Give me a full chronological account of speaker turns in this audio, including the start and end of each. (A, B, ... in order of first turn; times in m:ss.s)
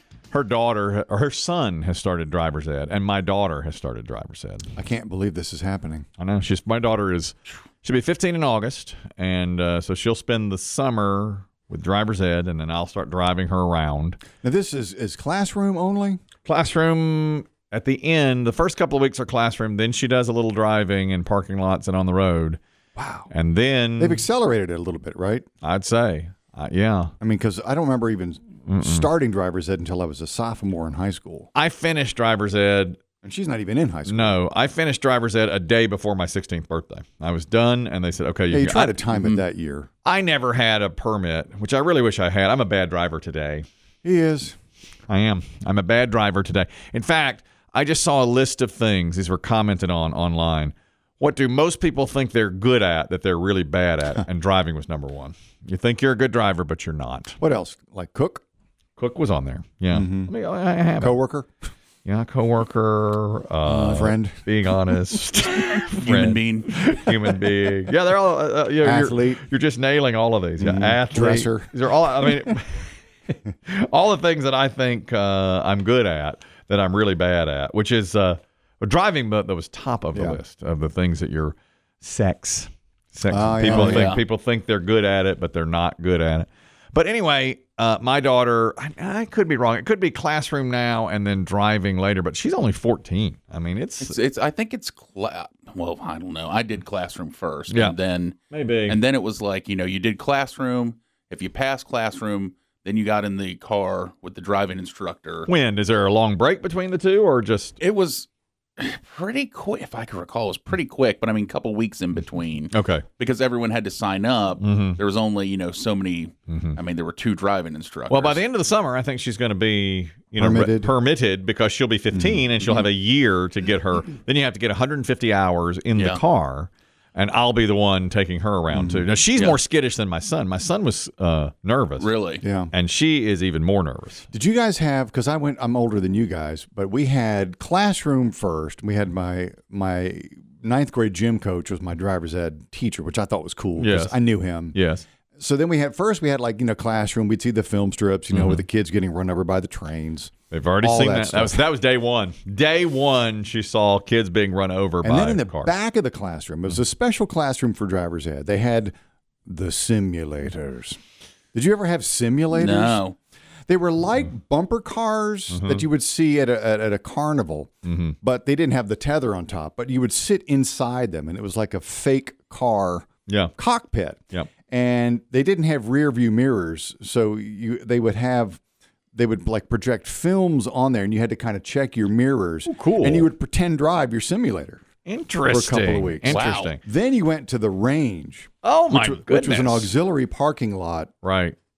0:00.3-0:04.7 A
0:04.8-0:06.0 B
0:06.2-0:14.2 A
0:14.4-0:16.2 B
0:16.4-0:22.6 A
0:23.0-0:23.3 B
0:23.3-0:24.2 A
0:24.0-0:25.4 B
0:25.6-0:27.1 A
0:27.2-0:31.5 B
0:28.6-0:29.1 A
0:31.5-0:33.0 A
0:33.2-0:34.4 B
0:34.1-0:39.4 A
0:38.5-0:39.9 B
0:40.0-0:43.6 A
0:44.0-0:44.5 B
0:45.1-0:57.4 A
0:57.4-0:58.4 B
0:59.0-1:01.2 A
0:59.9-1:00.3 B
1:01.0-1:01.5 B
1:02.0-1:12.9 A
1:03.6-1:04.4 B
1:06.0-1:06.8 C
1:08.8-1:09.4 B
1:10.6-1:11.7 B
1:13.6-1:34.2 A
1:20.1-1:20.4 B
1:23.3-1:24.1 B
1:23.7-1:24.2 C
1:34.0-1:45.5 C
1:37.7-1:38.0 A
1:38.5-1:39.0 A
1:45.5-1:47.8 A
1:47.8-1:58.4 C
1:52.7-1:53.0 A
1:54.6-1:55.0 A
1:56.5-1:56.8 A
1:58.1-2:12.1 A
2:00.4-2:00.9 B
2:02.1-2:02.4 B
2:05.9-2:06.2 C
2:08.7-2:09.0 B
2:12.0-2:12.4 C
2:12.4-2:12.7 B
2:12.7-2:14.3 A
2:14.3-2:24.8 B
2:23.8-2:25.0 A
2:25.3-2:31.6 B
2:28.3-2:28.6 A
2:30.5-2:35.7 A
2:35.0-2:38.9 B
2:39.4-2:41.0 B
2:41.5-2:43.0 B
2:42.5-2:43.2 C
2:43.7-2:58.6 B
2:45.5-2:45.8 A
2:47.8-2:48.2 A
2:53.3-2:53.5 A
2:59.1-3:04.8 B
3:02.7-3:03.3 A
3:05.0-3:06.8 A
3:05.5-3:11.1 B
3:06.2-3:06.8 C
3:08.6-3:09.9 A
3:11.2-3:11.6 A